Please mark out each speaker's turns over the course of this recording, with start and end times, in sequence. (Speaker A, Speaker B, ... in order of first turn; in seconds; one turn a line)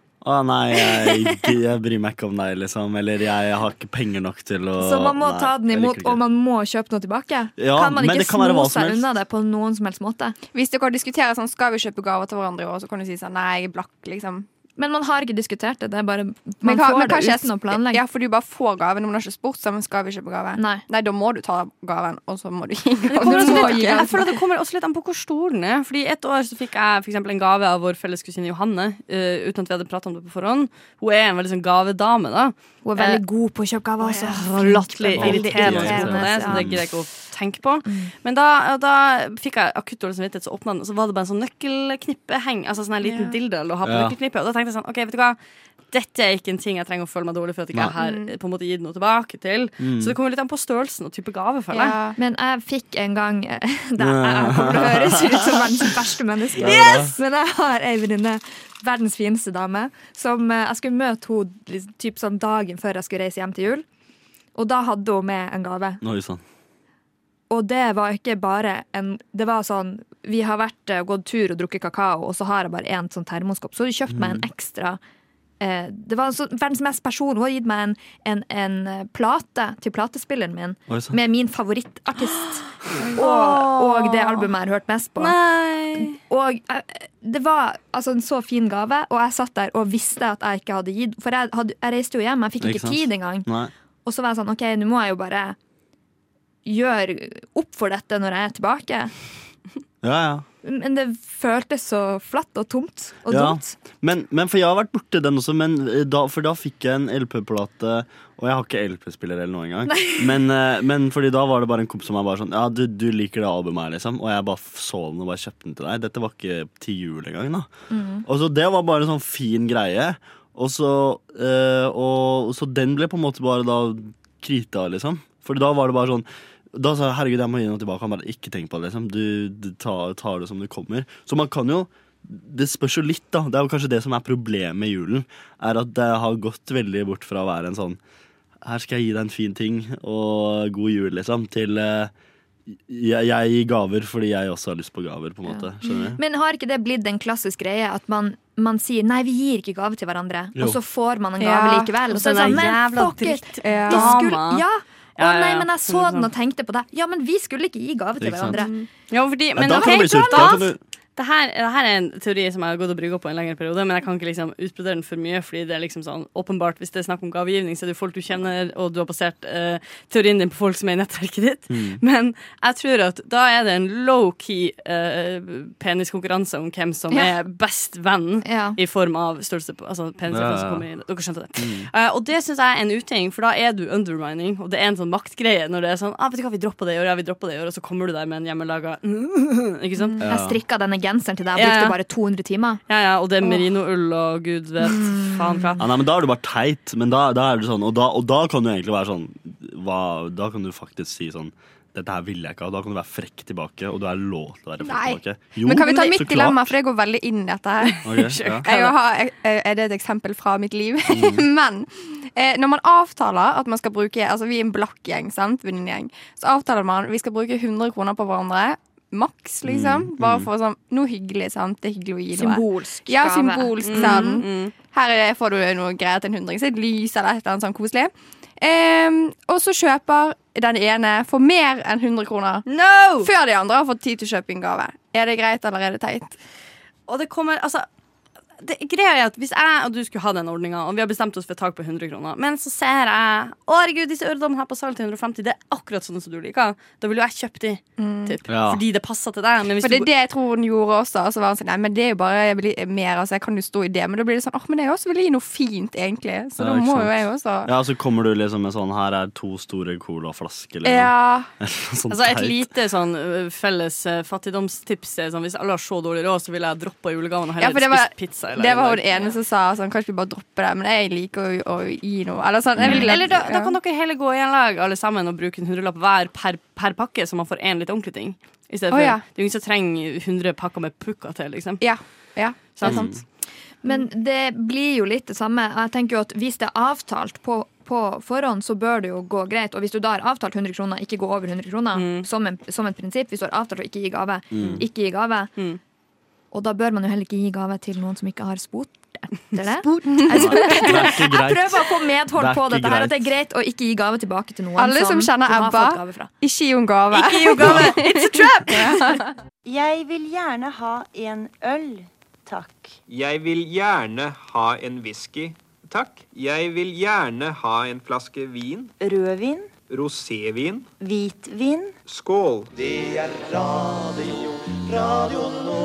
Speaker A: 0.2-6.2
Speaker B: 4.8-10.4
Speaker A: 7.6-9.1
Speaker C: 10.5-14.5
Speaker B: 14.8-18.0
Speaker C: 16.6-24.2
Speaker B: 20.6-20.8
Speaker D: 23.1-33.2
Speaker B: 23.1-24.2
Speaker B: 32.8-36.7
Speaker D: 34.0-45.4
Speaker A: 35.1-36.8
Speaker B: 37.9-38.1
Speaker C: 43.0-43.4
Speaker A: 43.8-44.1
Speaker D: 45.9-52.0
Speaker C: 48.0-48.3
Speaker A: 49.8-50.1
Speaker C: 51.7-52.2
Speaker B: 52.1-63.8
Speaker A: 54.0-55.8
Speaker A: 56.5-57.1
Speaker D: 56.6-57.2
Speaker B: 64.5-66.0
Speaker A: 66.0-66.4
Speaker B: 67.5-75.0
Speaker A: 74.1-74.5
Speaker B: 75.6-85.4
Speaker A: 80.9-81.2
Speaker D: 82.2-84.5
Speaker D: 85.2-86.2
Speaker B: 86.0-93.5
Speaker A: 92.6-93.7
Speaker B: 94.0-95.5
Speaker B: 96.6-99.1
Speaker A: 100.0-100.4
Speaker B: 100.6-103.8
Speaker A: 103.3-117.7
Speaker B: 109.9-110.3
Speaker B: 117.9-118.2
Speaker A: 118.2-138.0
Speaker A: 138.6-142.1
Speaker A: 142.7-146.2
Speaker B: 145.4-158.8
Speaker C: 151.4-151.9
Speaker D: 152.1-154.6
Speaker C: 153.6-154.2
Speaker D: 155.2-156.3
Speaker A: 158.2-158.6
Speaker C: 158.6-158.8
Speaker D: 159.1-190.2
Speaker A: 159.6-160.8
Speaker B: 159.7-160.7
Speaker A: 171.7-172.0
Speaker B: 178.4-178.8
Speaker A: 180.3-180.8
Speaker A: 181.6-181.9
Speaker A: 190.2-190.6
Speaker B: 190.2-192.8
Speaker D: 191.5-192.0
Speaker D: 192.9-195.8
Speaker B: 194.9-195.7
Speaker A: 195.8-206.8
Speaker C: 204.8-232.7
Speaker D: 207.8-208.9
Speaker A: 208.0-208.7
Speaker A: 211.1-211.4
Speaker A: 219.6-220.5
Speaker B: 222.3-224.4
Speaker D: 223.8-224.7
Speaker D: 232.7-233.3
Speaker C: 233.2-236.3
Speaker D: 237.1-237.9
Speaker D: 238.6-250.1
Speaker C: 248.0-248.3
Speaker A: 248.5-248.8
Speaker C: 249.8-257.7
Speaker A: 256.6-262.7
Speaker C: 260.8-261.5
Speaker D: 262.1-269.4
Speaker C: 267.6-273.8
Speaker A: 272.8-273.2
Speaker D: 272.8-281.8
Speaker C: 278.9-279.2
Speaker C: 281.8-283.1
Speaker D: 282.7-283.1
Speaker A: 282.8-283.2
Speaker B: 283.8-295.5
Speaker D: 291.9-292.2
Speaker A: 294.5-294.8
Speaker B: 296.5-306.3
Speaker C: 300.1-300.9
Speaker A: 300.3-303.3
Speaker C: 304.8-309.3
Speaker D: 307.1-309.1
Speaker E: 309.6-313.0
Speaker F: 313.2-318.8
Speaker E: 319.0-319.7
Speaker F: 320.0-320.8
Speaker E: 321.0-322.0
Speaker F: 322.2-322.6